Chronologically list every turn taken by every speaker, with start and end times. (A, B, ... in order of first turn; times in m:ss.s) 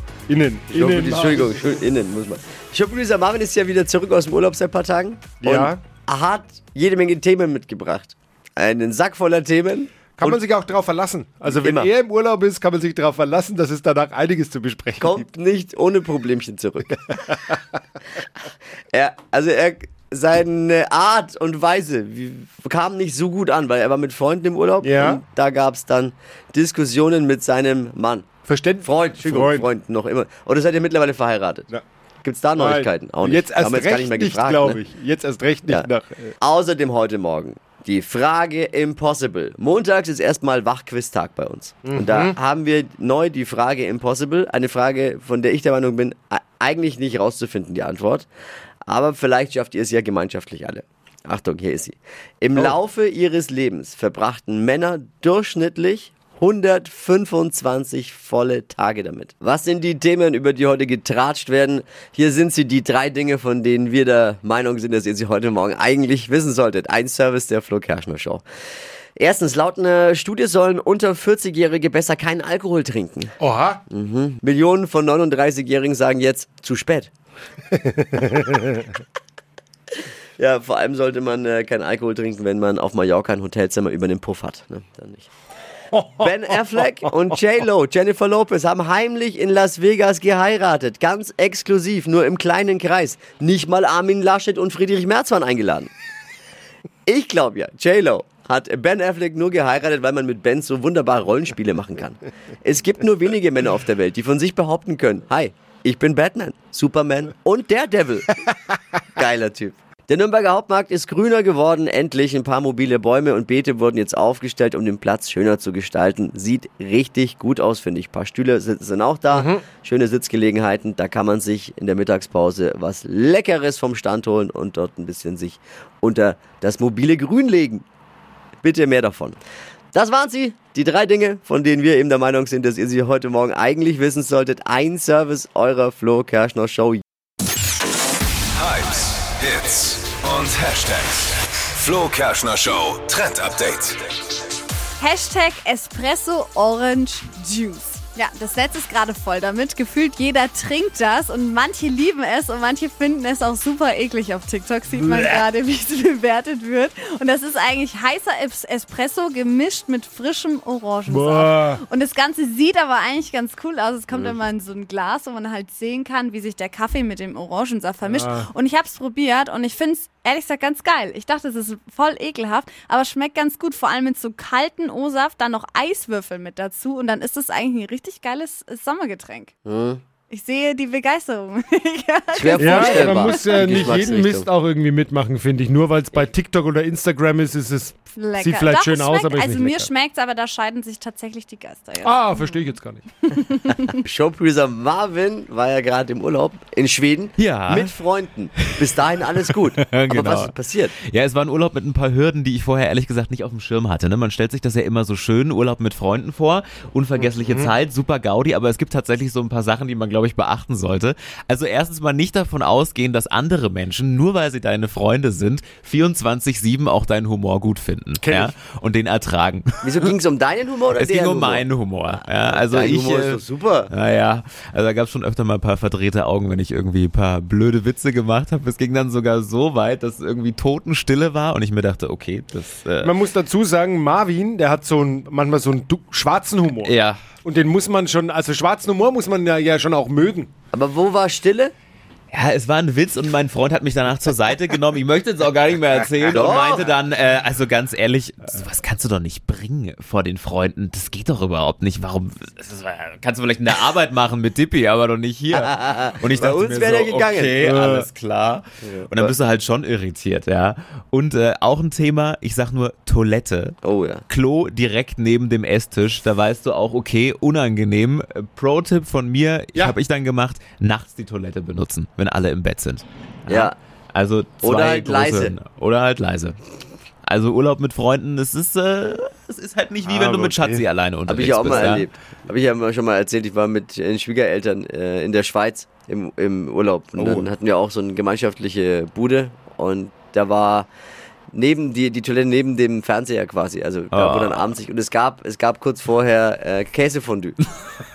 0:00.3-0:01.4 A
0:00.7-0:10.4 B
0:10.2-0:15.1 A
0:11.5-0:11.9 B
0:15.0-0:17.2 B
0:18.9-0:28.3 B
0:24.8-0:25.1 A
0:28.5-0:28.8 A
0:28.8-0:31.7 B
0:32.2-0:34.8 B
0:33.5-0:33.8 A
0:34.3-0:36.3 A
0:36.4-0:48.3 B
0:48.9-1:08.4 B
1:09.2-1:13.3 B
1:13.4-1:13.8 A
1:13.9-1:17.1 B
1:17.7-1:18.6 A
1:20.4-1:25.3 B
1:26.2-1:35.9 B
1:37.1-1:48.4 B
1:49.2-2:07.8 B
2:08.6-2:09.4 B
2:09.9-2:17.0 B
2:18.6-2:24.0 C
2:25.0-2:59.5 D
2:41.1-2:41.8 A
2:44.1-2:44.4 B
2:59.7-3:00.0 B
3:00.3-3:04.0 D
3:02.3-3:04.5 B
3:02.6-3:09.9 A
3:08.2-3:12.7 D
3:12.0-3:13.0 A
3:13.3-3:13.9 D
3:14.0-3:21.0 B
3:17.4-3:18.0 E
3:18.6-3:18.9 E
3:19.5-3:40.1 E
3:39.8-3:43.9 B
3:41.0-3:53.2 E
3:53.0-3:56.9 A
3:56.8-3:57.2 E
3:57.4-4:00.5 A
4:00.7-4:01.7 B
4:02.3-4:23.8 E
4:06.3-4:07.0 B
4:15.5-4:17.6 B
4:17.7-4:18.0 A
4:18.8-4:19.4 B
4:23.8-4:24.2 B
4:24.3-4:36.6 E
4:33.5-4:33.8 B
4:34.6-4:35.6 B
4:37.2-4:42.1 E
4:40.1-4:40.8 A
4:41.3-4:50.9 B
4:47.2-4:47.5 E
4:51.5-4:57.6 B
4:54.1-4:54.7 E